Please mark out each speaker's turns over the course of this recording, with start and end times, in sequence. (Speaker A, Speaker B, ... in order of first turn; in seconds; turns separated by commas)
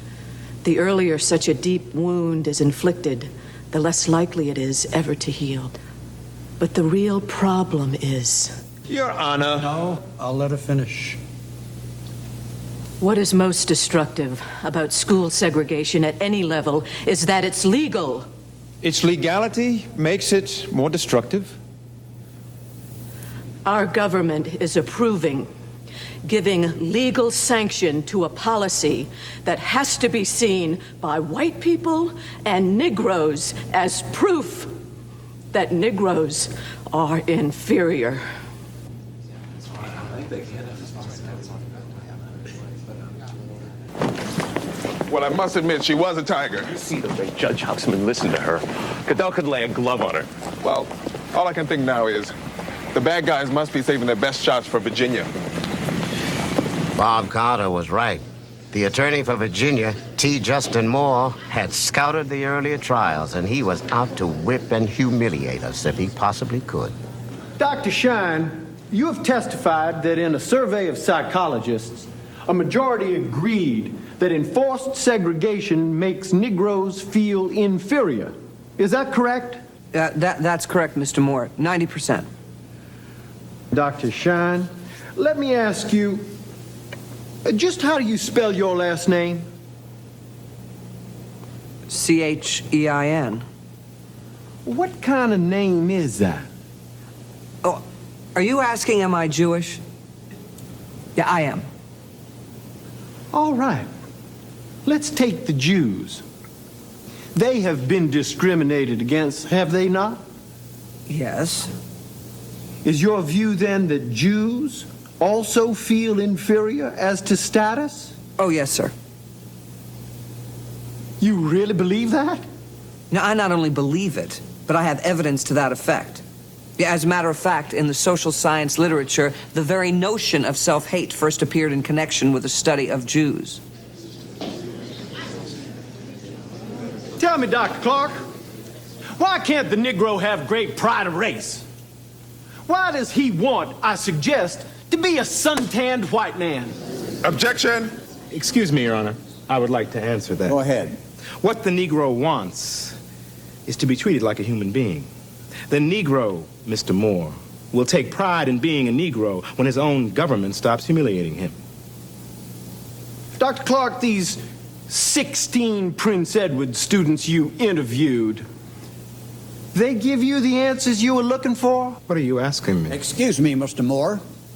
Speaker A: 0.6-5.8, Speaker A: 6.6-8.6, Speaker B: 8.9-9.6, Speaker C: 9.7-11.2, Speaker A: 13.0-18.3, Speaker B: 18.8-21.5, Speaker A: 23.6-25.5, Speaker A: 26.2-34.7, Speaker A: 35.5-38.2, Speaker D: 45.1-46.7, Speaker E: 46.8-50.3, Speaker D: 50.6-52.3, Speaker D: 52.9-55.3, Speaker F: 57.0-66.9, Speaker G: 67.6-79.6, Speaker H: 79.9-82.3, Speaker G: 83.7-86.3, Speaker G: 87.5-89.5, Speaker H: 91.9-93.5, Speaker G: 94.7-96.5, Speaker H: 98.3-99.8, Speaker H: 101.2-101.7, Speaker G: 103.3-103.9, Speaker G: 104.8-106.2, Speaker G: 107.3-110.2, Speaker H: 111.1-111.7, Speaker G: 112.8-118.2, Speaker H: 118.4-118.9, Speaker G: 121.2-122.4, Speaker H: 123.1-126.2, Speaker H: 126.8-133.6, Speaker G: 137.2-138.2, Speaker G: 139.2-141.6, Speaker G: 142.7-146.8, Speaker D: 147.2-147.9, Speaker I: 148.3-153.0, Speaker I: 153.7-155.1, Speaker I: 155.7-161.6, Speaker G: 163.4-168.4, Speaker G: 169.7-172.0, Speaker I: 172.1-173.0, Speaker C: 172.9-174.2